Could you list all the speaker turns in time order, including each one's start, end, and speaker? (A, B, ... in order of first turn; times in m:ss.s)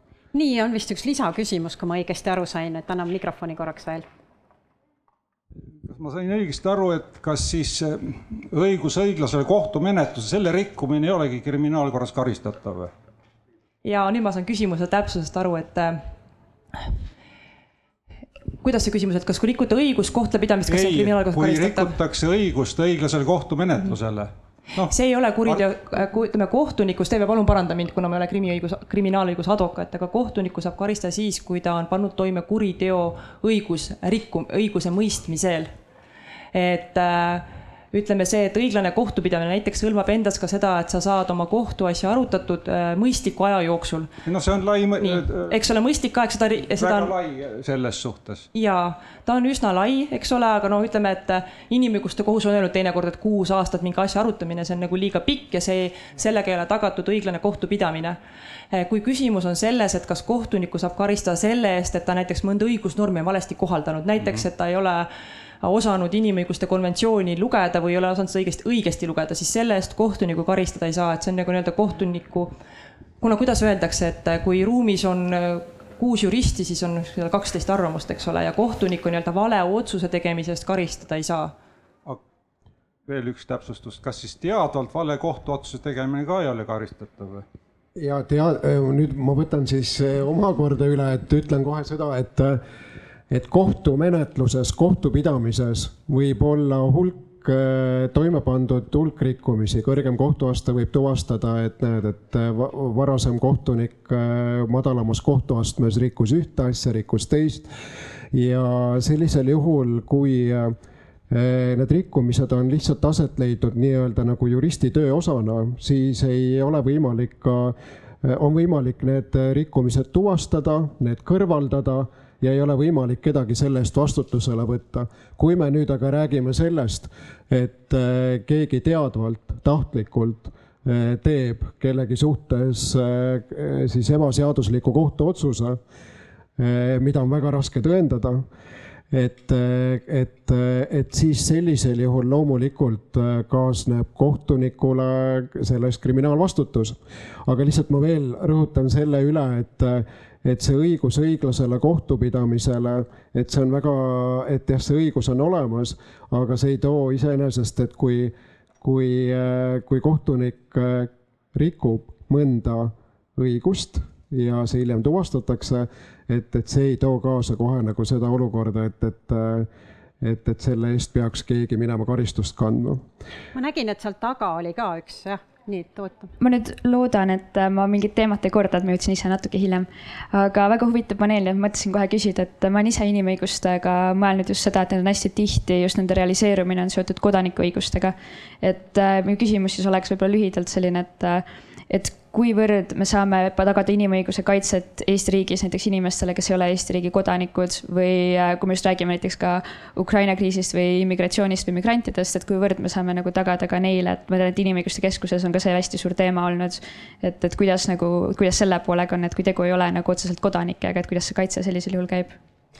0:00.3-0:04.0 A
0:05.8-0:12.9 B
0:13.8-0:16.1 C
0:18.6-0:22.0 C
0:20.7-0:25.7 B
0:24.9-0:35.7 C
0:36.5-0:44.1 C
0:44.2-0:45.6 B
0:45.0-0:47.1 C
0:46.8-0:48.5 B
0:48.5-0:58.2 C
0:58.7-1:05.1 C
1:05.6-1:12.5 C
1:13.2-1:21.5 C
1:23.0-1:27.4 B
1:28.0-1:32.6 D
1:33.3-1:47.7 D
1:48.3-1:50.7 D
1:51.3-2:15.8 D
2:16.6-2:18.4 D
2:19.1-2:49.7 D
2:50.2-2:53.0 D
2:53.5-2:56.3 A
2:56.4-3:32.4 E